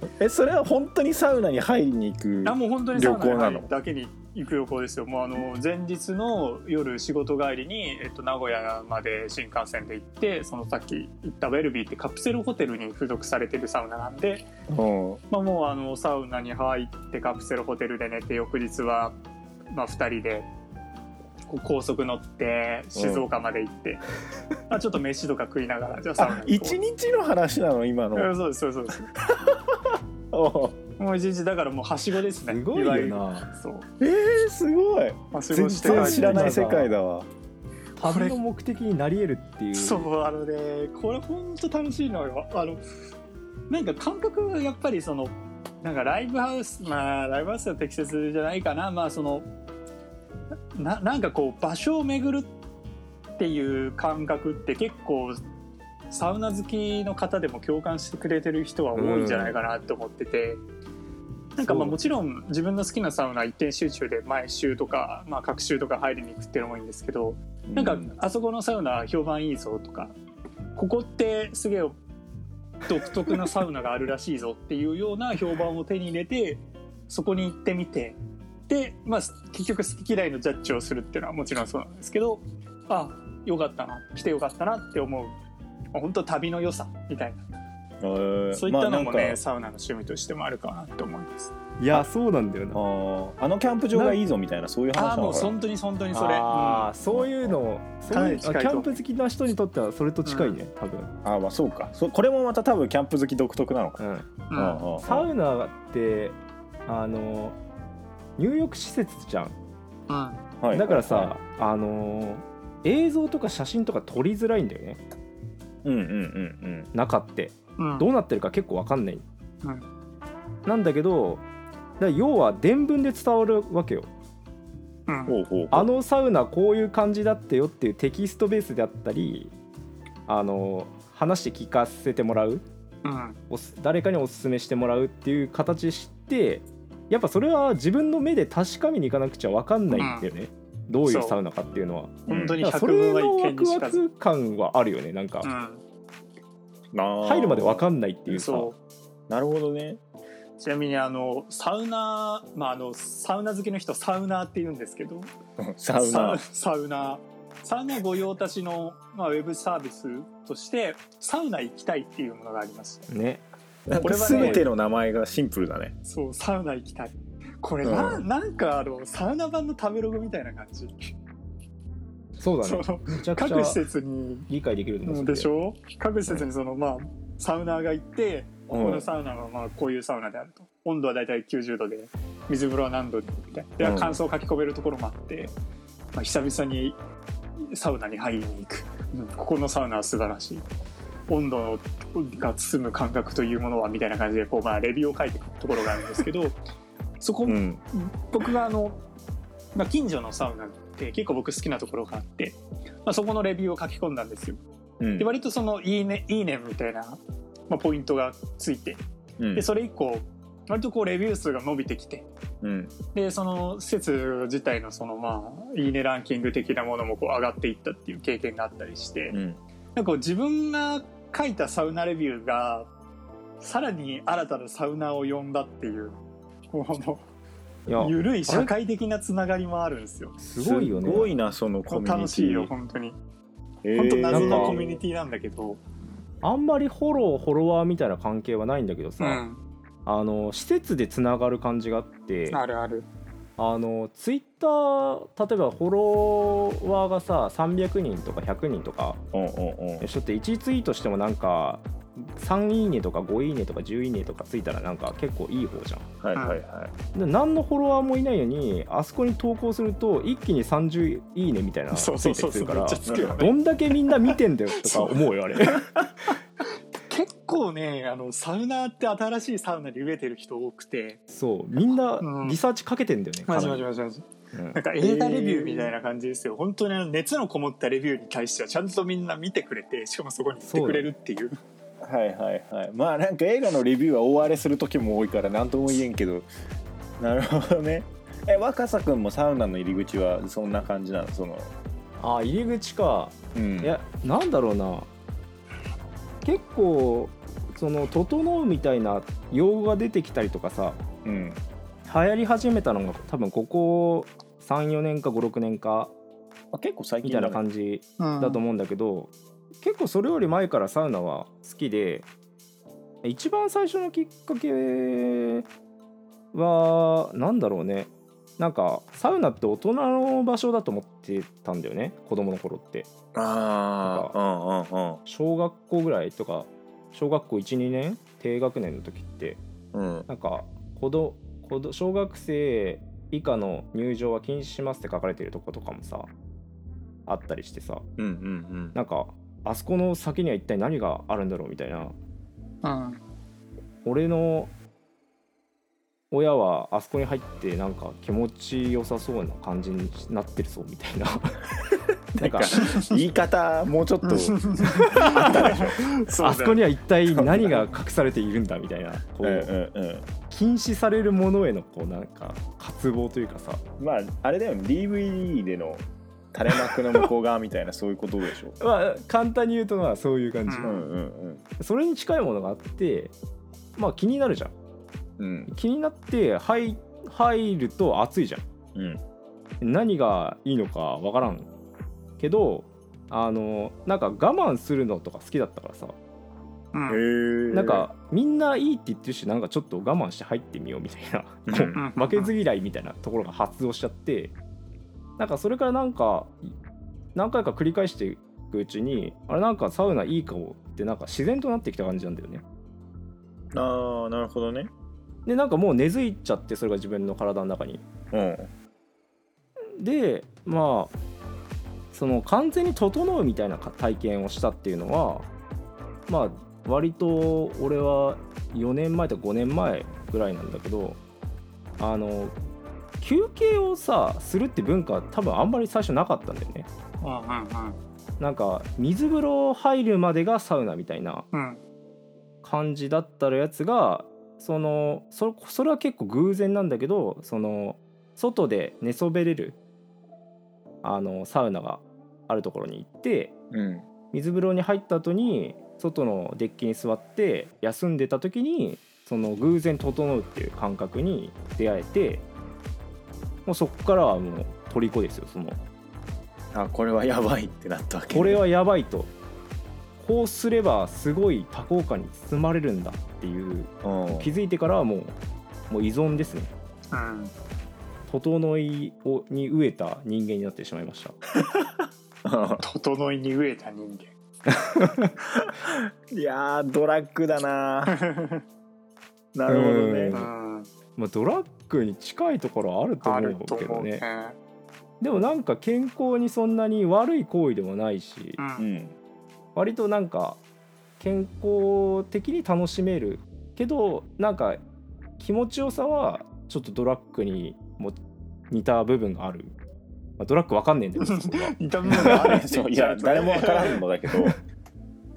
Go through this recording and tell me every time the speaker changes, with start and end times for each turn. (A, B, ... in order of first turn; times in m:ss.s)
0:00.2-0:03.7 A
0:02.4-0:14.5 B
0:14.7-0:15.2 A
0:15.3-0:19.2 B
0:19.7-0:20.5 B
0:21.5-0:24.0 B
0:22.9-0:23.2 A
0:24.7-0:26.8 B
0:26.2-0:28.3 A
0:28.1-0:29.1 B
0:29.2-0:29.8 A
0:30.3-0:30.8 A
0:31.0-0:33.8 B
0:32.5-0:33.5 C
0:34.0-0:37.3 A
0:35.3-0:36.5 B
0:35.8-0:36.9 C
0:38.0-0:40.1 C
0:38.0-0:38.4 B
0:39.7-0:42.8 B
0:43.7-0:49.5 B
0:50.7-0:52.5 B
0:53.4-0:55.4 B
0:56.1-1:00.6 B
0:58.9-0:59.6 C
1:01.6-1:10.1 B
1:01.6-1:02.0 C
1:07.7-1:08.1 A
1:10.8-1:12.0 B
1:12.8-1:18.2 B
1:18.7-1:25.3 B
1:25.9-1:27.4 B
1:28.0-1:29.4 A
1:28.5-1:31.5 B
1:31.8-1:32.8 C
1:32.7-1:35.6 A
1:33.9-1:34.2 C
1:34.9-1:36.9 B
1:36.1-1:41.1 C
1:37.1-1:37.5 A
1:38.1-1:39.0 B
1:40.2-1:40.5 B
1:41.2-1:44.0 A
1:44.0-1:44.3 C
1:44.5-1:44.8 B
1:44.5-1:45.3 A
1:45.0-1:47.6 C
1:48.4-1:49.5 C
1:50.1-1:50.4 B
1:50.6-1:51.3 A
1:50.7-1:55.0 C
1:55.8-1:56.9 A
1:56.9-1:59.2 C
1:57.8-1:58.1 B
2:00.6-2:01.4 C
2:02.0-2:04.1 C
2:05.1-2:05.3 B
2:05.3-2:05.9 A
2:05.7-2:09.5 C
2:10.3-2:12.6 C
2:13.0-2:13.4 B
2:13.5-2:25.5 C
2:19.9-2:20.3 B
2:21.0-2:21.4 B
2:22.3-2:22.6 A
2:22.3-2:24.0 B
2:25.4-2:25.8 B
2:26.9-2:27.9 A
2:27.2-2:28.7 C
2:28.3-2:28.8 B
2:29.3-2:30.0 A
2:30.6-2:35.3 B
2:35.6-2:36.4 A
2:36.0-2:43.0 B
2:43.1-2:43.4 C
2:43.9-2:45.9 A
2:44.0-2:44.7 B
2:44.3-2:44.6 C
2:46.0-2:51.1 B
2:47.8-2:48.2 A
2:52.4-2:53.8 C
2:52.6-2:54.5 B
2:54.5-2:55.5 C
2:55.0-3:05.5 B
2:58.7-2:59.0 A
3:03.8-3:04.2 A
3:06.1-3:07.0 B
3:07.7-3:10.6 B
3:11.3-3:16.6 B
3:17.2-3:19.0 B
3:17.4-3:17.8 A
3:19.7-3:24.6 B
3:25.0-3:25.3 A
3:25.2-3:29.0 B
3:29.4-3:29.6 A
3:29.5-3:32.3 B
3:32.6-3:32.9 A
3:33.1-3:39.4 B
3:39.3-3:39.6 A
3:39.9-3:42.9 B
3:43.6-3:46.2 B
3:46.7-3:47.2 B
3:47.9-3:48.7 C
3:48.0-3:50.4 B
3:50.4-3:51.3 C
3:50.6-3:52.7 A
3:51.9-3:53.2 B
3:53.8-3:54.9 A
3:53.9-3:55.8 B
3:54.3-3:54.8 C
3:56.4-3:59.4 C
3:59.2-3:59.6 B
4:00.0-4:02.6 C
4:02.5-4:03.1 B
4:03.6-4:09.2 C
4:09.3-4:10.1 A
4:10.0-4:16.0 C
4:16.2-4:16.9 A
4:17.1-4:25.9 C
4:21.9-4:23.5 B
4:23.1-4:23.4 A
4:24.3-4:25.1 B
4:27.1-4:31.2 B
4:31.3-4:33.8 C
4:32.2-4:32.6 B
4:33.4-4:41.6 B
4:34.5-4:34.8 C
4:35.0-4:35.9 A
4:40.6-4:41.1 C
4:42.0-4:46.4 A
4:47.2-4:51.7 A
4:52.2-4:55.1 C
4:53.5-4:53.9 A
4:56.4-5:01.0 C
5:01.2-5:01.6 A
5:02.0-5:06.1 C
5:06.7-5:07.6 A
5:07.2-5:12.3 C
5:08.2-5:08.6 B
5:13.2-5:15.7 C
5:16.5-5:23.1 C
5:23.3-5:25.2 A
5:24.0-5:24.3 C
5:25.2-5:29.6 C
5:29.9-5:30.3 A
5:30.3-5:36.3 C
5:37.3-5:38.0 C
5:38.2-5:39.0 A
5:38.9-5:42.1 C
5:42.8-5:43.2 B
5:44.0-5:44.7 C
5:46.3-5:51.6 C
5:52.3-5:56.1 A
5:52.4-5:52.9 C
5:54.2-5:56.8 B
5:54.9-5:55.7 C
5:56.4-5:59.7 C
5:57.3-5:57.8 A
5:59.4-6:00.3 A
6:00.5-6:03.8 C
6:04.0-6:06.0 A
6:06.5-6:08.8 A
6:06.9-6:07.2 C
6:08.8-6:11.1 C
6:10.7-6:10.9 B
6:10.8-6:11.6 A
6:11.8-6:13.3 C
6:14.0-6:14.7 C
6:15.4-6:15.7 A
6:15.7-6:18.6 C
6:18.9-6:19.2 A
6:19.8-6:21.7 C
6:22.4-6:26.2 C
6:26.9-6:27.2 B
6:27.1-6:28.1 A
6:27.7-6:34.5 C
6:31.7-6:32.0 A
6:32.0-6:32.5 B
6:35.4-6:36.7 C
6:37.3-6:42.6 C
6:43.7-6:44.9 A
6:45.4-6:48.0 C
6:48.3-6:48.7 A
6:50.0-6:51.1 C
6:52.1-6:55.5 C
6:56.3-7:01.2 C
7:02.0-7:02.5 C
7:03.2-7:06.9 C
7:07.2-7:08.0 B
7:08.4-7:11.4 C
7:11.5-7:11.8 B
7:12.6-7:19.8 C
7:21.0-7:23.5 C
7:23.7-7:24.1 A
7:24.3-7:32.4 C
7:33.6-7:35.8 C
7:36.7-7:38.6 A
7:38.3-7:39.3 C
7:40.2-7:45.3 C
7:44.0-7:44.5 A
7:45.9-7:46.7 C
7:47.1-7:47.5 B
7:48.3-7:51.4 C
7:51.5-7:52.8 A
7:52.8-7:54.3 B
7:54.7-7:55.3 C
7:55.5-7:58.2 A
7:58.1-7:58.6 B
7:59.5-8:00.4 A
7:59.7-8:00.5 C
8:00.3-8:00.9 B
8:01.2-8:04.2 C
8:03.2-8:04.6 B
8:05.2-8:08.6 C
8:08.6-8:08.8 B
8:08.8-8:09.1 A
8:09.7-8:10.6 C
8:11.2-8:14.8 C
8:15.4-8:18.2 C
8:18.7-8:19.7 C
8:20.4-8:22.4 C
8:21.2-8:24.0 B
8:22.1-8:24.6 A